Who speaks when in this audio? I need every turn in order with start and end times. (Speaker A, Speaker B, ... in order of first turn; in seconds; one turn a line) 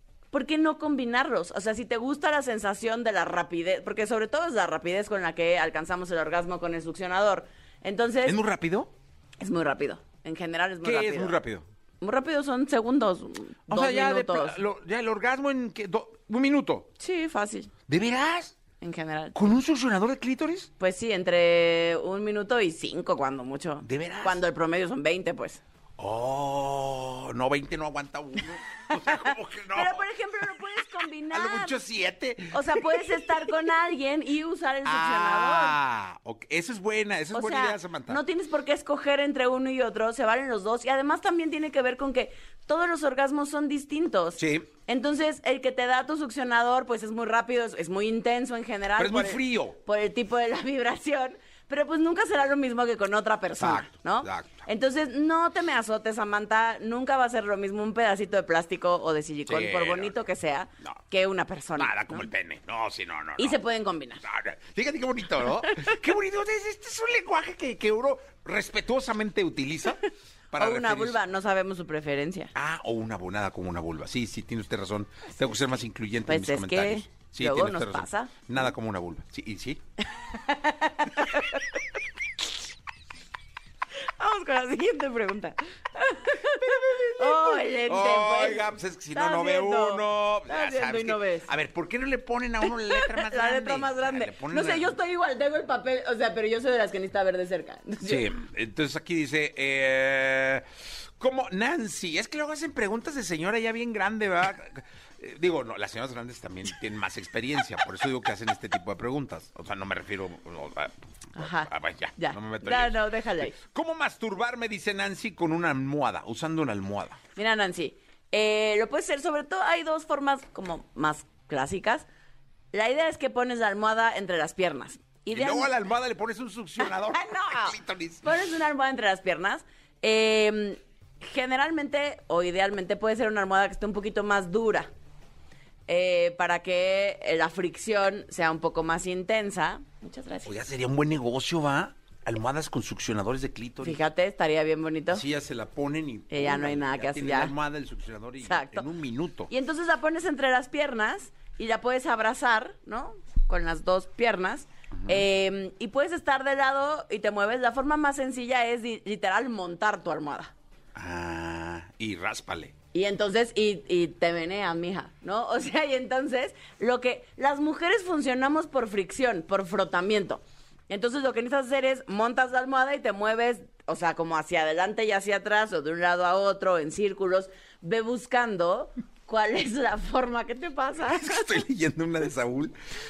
Speaker A: 0.3-8.4
Speaker B: 8.2-8.9
Speaker A: 9.4-11.4
Speaker B: 10.8-11.7
Speaker A: 12.0-14.6
Speaker B: 13.7-16.9
Speaker A: 17.0-17.7
Speaker B: 17.9-18.6
Speaker A: 18.8-19.4
Speaker B: 19.3-20.7
Speaker A: 20.8-25.6
Speaker B: 23.8-24.4
Speaker B: 26.0-30.5
Speaker A: 29.0-31.8
Speaker B: 31.3-33.5
Speaker A: 32.5-35.8
Speaker B: 34.8-38.2
Speaker A: 37.3-62.3
Speaker B: 44.4-44.7
Speaker B: 49.0-49.8
Speaker B: 53.6-54.6
Speaker B: 59.5-60.2
Speaker B: 61.8-63.6
Speaker A: 63.4-64.2
Speaker B: 64.2-70.0
Speaker B: 70.5-71.2
Speaker A: 70.5-72.5
Speaker B: 72.5-79.8
Speaker A: 76.3-78.4
Speaker A: 80.1-81.8
Speaker A: 84.2-91.5
Speaker B: 86.6-94.9
Speaker A: 92.6-98.3
Speaker B: 98.0-117.2
Speaker A: 111.3-113.6
Speaker A: 117.3-122.1
Speaker A: 122.7-125.7
Speaker B: 125.3-128.2
Speaker A: 126.8-134.9
Speaker A: 135.9-140.5
Speaker B: 140.4-144.0
Speaker A: 143.8-145.2
Speaker B: 145.1-149.5
Speaker A: 146.3-147.5
Speaker A: 148.4-148.8
Speaker A: 149.5-160.5
Speaker B: 160.9-162.7
Speaker A: 162.9-181.6
Speaker B: 181.1-182.8